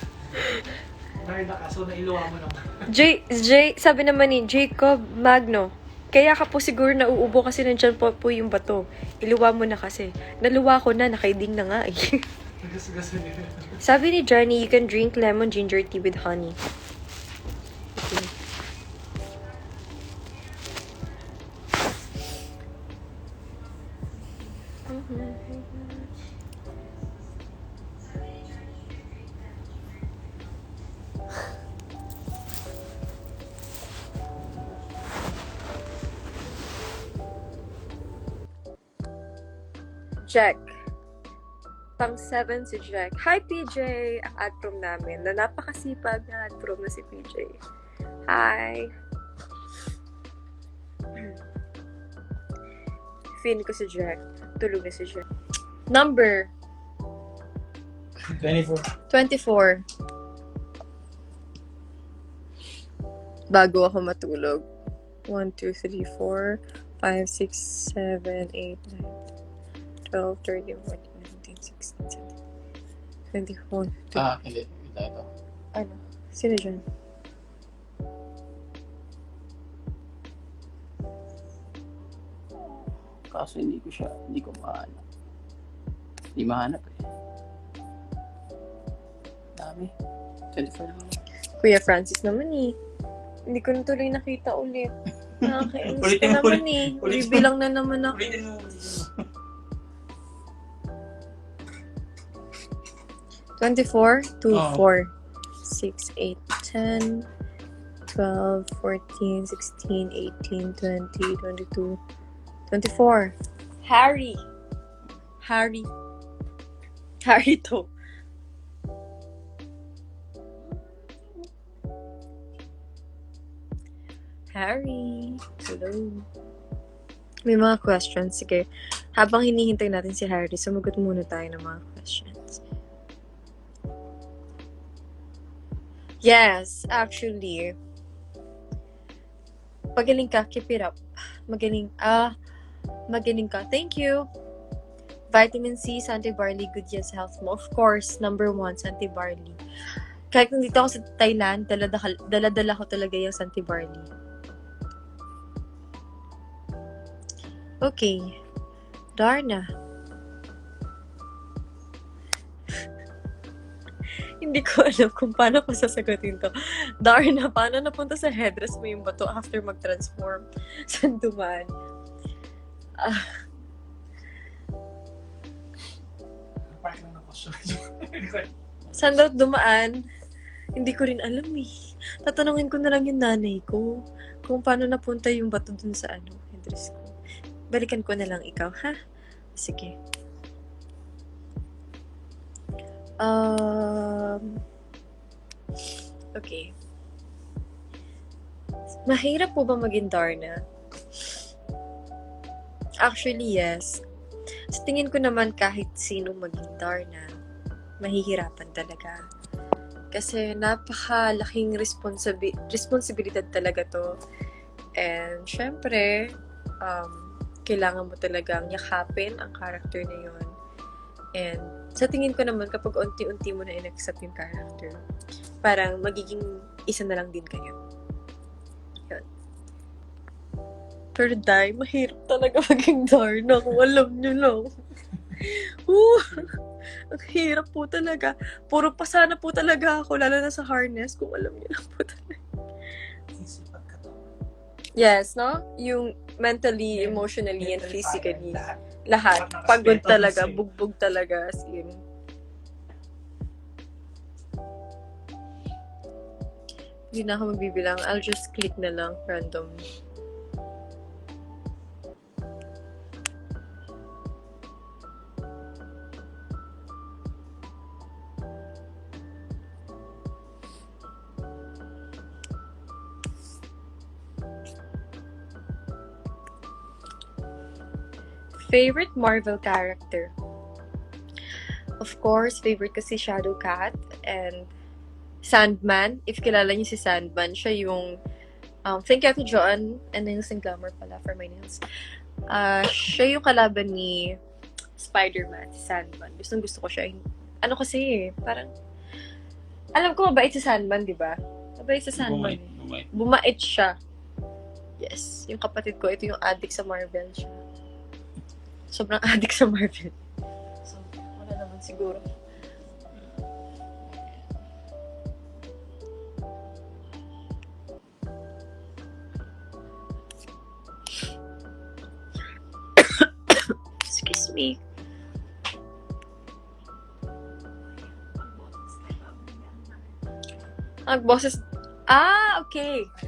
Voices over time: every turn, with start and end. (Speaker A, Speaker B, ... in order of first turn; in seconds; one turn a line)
Speaker A: 1.2-2.8
Speaker B: 2.9-12.1
Speaker A: 12.6-13.7
Speaker B: 13.8-16.6
Speaker B: 17.9-18.3
Speaker B: 24.9-26.1
Speaker B: 40.3-40.7
Speaker B: 42.0-47.6
Speaker B: 48.3-48.9
Speaker B: 53.4-55.2
Speaker B: 55.9-56.5
Speaker B: 59.1-59.8
Speaker B: 63.5-64.7
Speaker B: 65.3-69.2
Speaker B: 70.1-72.3
Speaker B: 73.3-73.9
Speaker C: 74.1-75.3
Speaker B: 75.7-76.8
Speaker C: 83.3-85.0
Speaker C: 86.3-87.0
Speaker C: 89.6-89.9
Speaker C: 90.5-91.2
Speaker B: 91.6-92.8
Speaker B: 93.5-94.9
Speaker C: 95.4-97.5
Speaker B: 95.4-98.2
Speaker C: 98.1-99.1
Speaker B: 103.6-105.1
Speaker C: 104.5-104.8
Speaker B: 105.6-107.2
Speaker B: 108.1-112.0
Speaker B: 112.7-114.4
Speaker B: 115.4-115.9
Speaker B: 117.2-117.9
Speaker B: 124.5-126.2
Speaker B: 127.5-132.6
Speaker B: 136.2-137.8
Speaker B: 139.9-141.0
Speaker B: 141.5-142.3
Speaker B: 143.1-144.3
Speaker B: 145.3-149.6
Speaker B: 150.3-154.1
Speaker B: 157.8-158.4
Speaker B: 159.2-159.6
Speaker B: 164.4-171.7
Speaker B: 173.0-173.3
Speaker A: 176.8-178.5
Speaker B: 178.9-180.0
Speaker B: 180.8-181.7
Speaker B: 182.2-183.9
Speaker B: 184.4-187.1
Speaker B: 187.7-188.9
Speaker B: 189.6-189.9
Speaker B: 193.2-194.6
Speaker B: 196.3-196.7
Speaker B: 199.0-200.6
Speaker B: 203.0-204.0
Speaker B: 204.7-207.3
Speaker B: 208.0-209.2
Speaker B: 210.1-214.1
Speaker B: 215.0-216.3
Speaker B: 216.8-220.5
Speaker B: 221.3-225.0
Speaker B: 225.6-227.8
Speaker B: 231.1-234.7
Speaker B: 235.3-236.5
Speaker B: 237.1-242.4
Speaker A: 243.3-244.2
Speaker B: 245.0-252.0
Speaker A: 246.9-248.8
Speaker A: 249.3-250.6
Speaker B: 257.1-259.8
Speaker B: 278.6-280.3
Speaker B: 282.0-284.7
Speaker B: 285.4-288.2
Speaker B: 288.9-291.8
Speaker B: 292.5-294.3
Speaker B: 295.0-298.7
Speaker B: 300.0-302.6
Speaker C: 302.2-303.1
Speaker B: 303.1-303.9
Speaker B: 305.0-307.6
Speaker B: 308.9-310.1
Speaker B: 310.9-312.2
Speaker B: 323.0-324.8
Speaker B: 331.1-333.1